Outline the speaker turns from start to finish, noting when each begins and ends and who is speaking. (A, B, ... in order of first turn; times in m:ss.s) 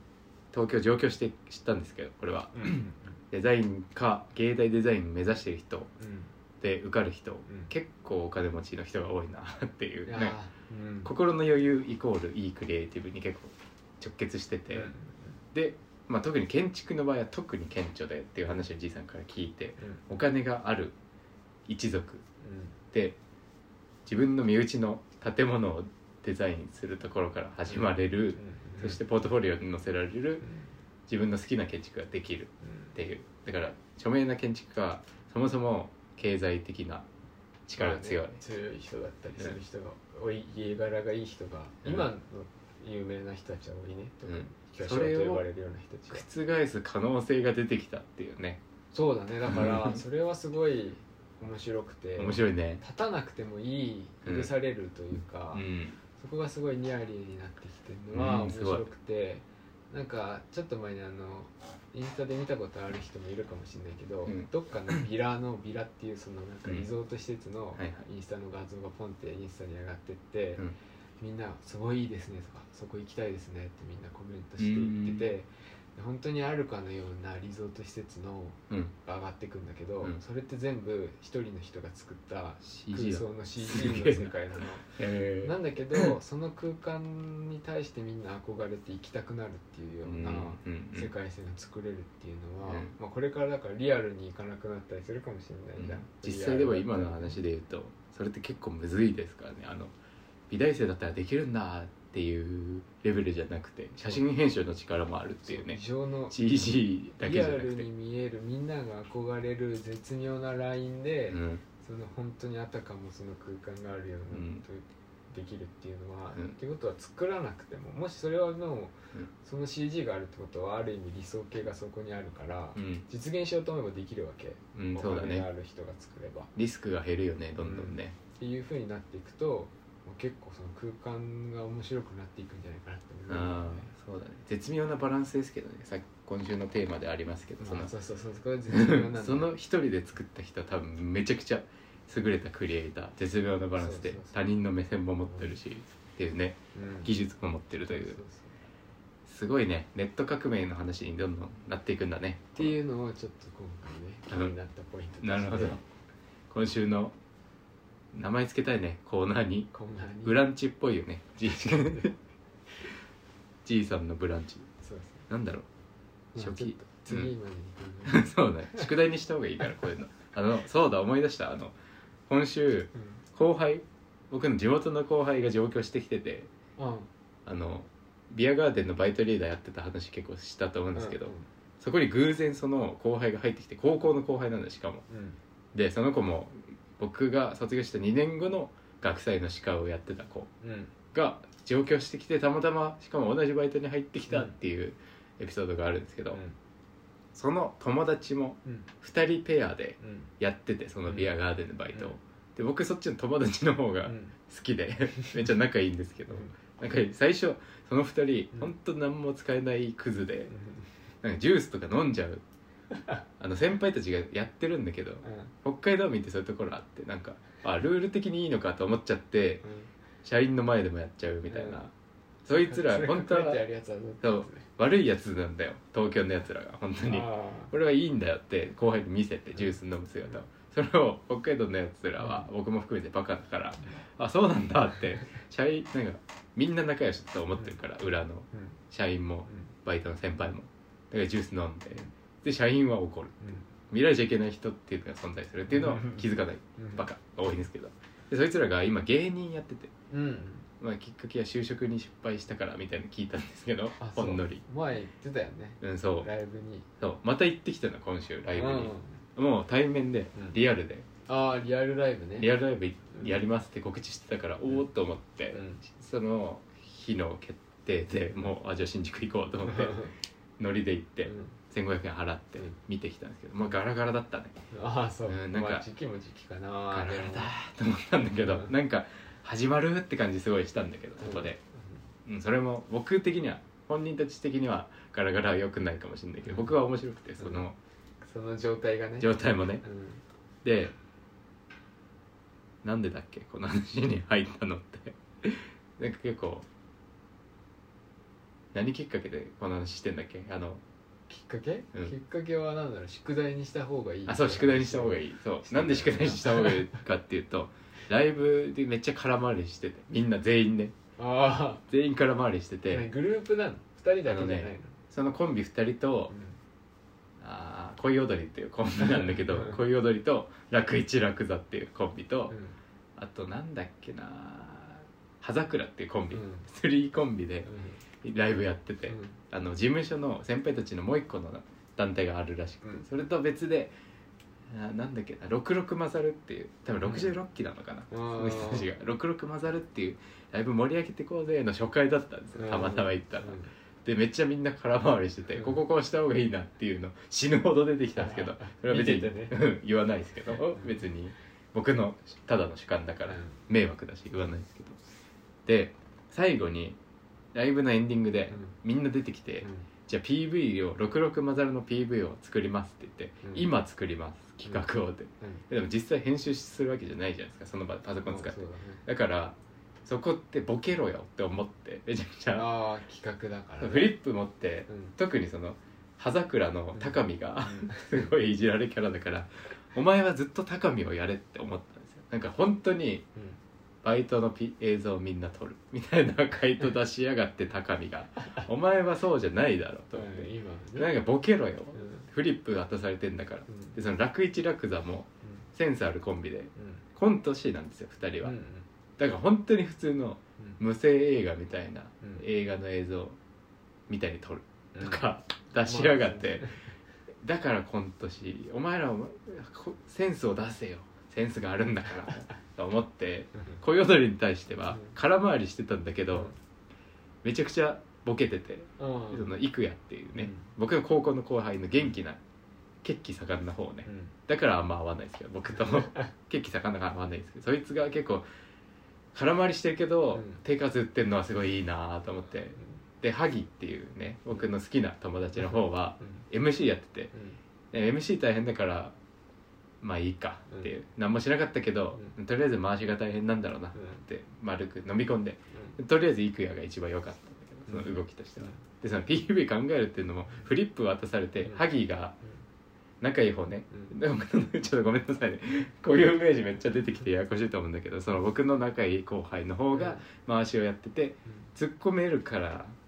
0:00.5-0:05.9 A
0:02.5-0:03.2 B
0:06.0-0:06.3 B
0:06.6-0:10.4 A
0:07.5-0:07.7 B
0:10.0-0:11.1 B
0:11.0-0:14.9 A
0:14.7-0:15.4 B
0:15.5-0:20.9 A
0:21.7-0:22.2 A
0:22.4-0:22.8 B
0:22.9-0:23.2 A
0:24.0-0:30.4 A
0:27.7-0:29.0 B
0:30.4-0:30.7 B
0:31.1-0:37.1 A
0:32.6-0:32.9 B
0:37.7-0:38.4 A
0:37.7-0:46.2 B
0:44.2-0:45.4 A
0:46.1-0:48.6 A
0:48.9-0:55.6 B
0:49.5-0:50.0 A
0:52.2-0:52.8 A
0:54.2-0:54.5 A
0:55.5-0:56.0 A
0:56.2-1:10.6 B
0:58.1-0:58.8 A
1:04.2-1:05.0 A
1:07.8-1:08.0 A
1:11.2-1:37.4 B
1:14.6-1:15.3 A
1:22.6-1:24.4 A
1:24.9-1:26.1 A
1:30.0-1:31.1 A
1:32.6-1:32.9 A
1:35.8-1:39.9 A
1:40.5-1:47.8 A
1:45.4-1:46.4 B
1:47.2-2:06.5 B
1:51.3-1:51.6 A
1:54.3-1:54.6 A
2:02.8-2:03.0 A
2:04.8-2:05.4 A
2:06.5-2:08.1 A
2:07.6-2:13.9 B
2:13.3-2:17.9 A
2:17.6-2:19.5 B
2:18.7-2:28.2 A
2:23.8-2:24.4 B
2:25.3-2:25.6 B
2:26.7-2:27.1 B
2:27.9-2:28.6 B
2:29.3-2:32.7 A
2:32.5-2:35.8 B
2:35.2-2:35.8 A
2:36.5-2:37.2 A
2:38.1-2:39.7 A
2:39.7-2:40.4 B
2:40.2-2:42.2 A
2:41.5-2:42.1 B
2:43.6-2:44.7 A
2:44.8-2:45.2 B
2:45.3-2:45.6 A
2:46.3-2:48.9 B
2:46.4-2:47.3 A
2:48.0-2:51.7 A
2:52.3-2:56.5 A
2:52.9-2:53.2 B
2:56.8-2:57.1 B
2:57.4-3:05.0 A
3:00.9-3:01.5 B
3:05.1-3:05.4 B
3:05.7-3:10.5 A
3:10.6-3:10.9 B
3:11.1-3:16.4 A
3:14.3-3:14.5 B
3:17.3-3:30.5 A
3:20.0-3:20.3 B
3:21.1-3:21.3 B
3:24.0-3:24.3 B
3:30.5-3:30.9 B
3:31.2-3:32.4 A
3:32.9-3:33.2 B
3:33.4-3:39.6 A
3:35.2-3:35.5 B
3:39.6-3:39.9 B
3:40.2-3:41.9 A
3:41.5-3:41.8 B
3:42.4-3:43.6 A
3:42.5-3:44.6 B
3:44.2-4:09.9 A
3:47.1-3:47.7 B
3:52.2-3:52.5 B
3:58.5-3:58.8 B
4:05.7-4:06.2 B
4:06.8-4:07.0 B
4:10.1-4:10.6 B
4:10.8-4:14.6 A
4:14.0-4:16.9 B
4:15.8-4:16.3 A
4:17.0-4:21.1 A
4:18.5-4:19.2 B
4:21.3-4:22.5 B
4:22.4-4:34.6 A
4:25.5-4:25.8 B
4:29.6-4:30.1 B
4:31.2-4:31.5 B
4:34.7-4:37.5 B
4:35.3-4:35.8 A
4:36.9-4:41.6 A
4:38.4-4:38.7 B
4:41.2-4:42.0 B
4:42.2-4:47.8 A
4:46.4-4:46.8 B
4:47.4-4:47.6 B
4:48.2-4:50.2 B
4:49.2-4:49.8 A
4:50.6-4:50.9 A
4:52.8-4:56.7 A
4:58.7-5:00.8 A
5:01.3-5:06.9 B
5:04.2-5:10.9 A
5:11.2-5:11.8 B
5:11.9-5:13.0 A
5:12.9-5:14.9 B
5:14.2-5:16.3 A
5:16.3-5:16.6 B
5:17.4-5:22.6 A
5:19.0-5:19.8 B
5:22.5-5:22.8 B
5:23.2-5:27.7 A
5:26.3-5:26.7 B
5:27.6-5:28.0 B
5:28.2-5:33.9 A
5:29.1-5:29.4 B
5:34.7-5:55.0 A
5:37.0-5:37.3 B
5:38.1-5:38.9 B
5:42.6-5:43.7 B
5:48.2-5:49.6 B
5:53.3-5:53.6 B
5:55.6-5:57.0 A
5:57.5-6:12.7 A
6:03.4-6:03.7 B
6:08.2-6:09.0 B
6:12.5-6:14.2 B
6:13.8-6:23.3 A
6:14.9-6:15.1 B
6:16.9-6:18.3 B
6:24.0-6:38.6 A
6:30.1-6:31.1 B
6:31.9-6:32.3 B
6:33.7-6:34.0 B
6:36.8-6:37.0 B
6:38.4-6:38.8 B
6:39.2-6:43.4 A
6:44.1-6:46.7 A
6:44.9-6:45.2 B
6:45.8-6:46.8 B
6:47.4-6:56.5 A
6:57.4-7:02.4 A
6:59.0-6:59.5 B
7:00.3-7:00.6 B
7:03.0-7:08.4 A
7:04.0-7:04.3 B
7:05.8-7:06.0 B
7:09.3-7:17.3 A
7:10.3-7:10.6 B
7:15.6-7:16.4 B
7:17.3-7:17.6 B
7:17.9-7:19.2 A
7:20.0-7:32.4 A
7:23.9-7:24.2 B
7:25.7-7:26.0 B
7:27.9-7:28.7 B
7:33.2-7:43.0 A
7:39.9-7:40.2 B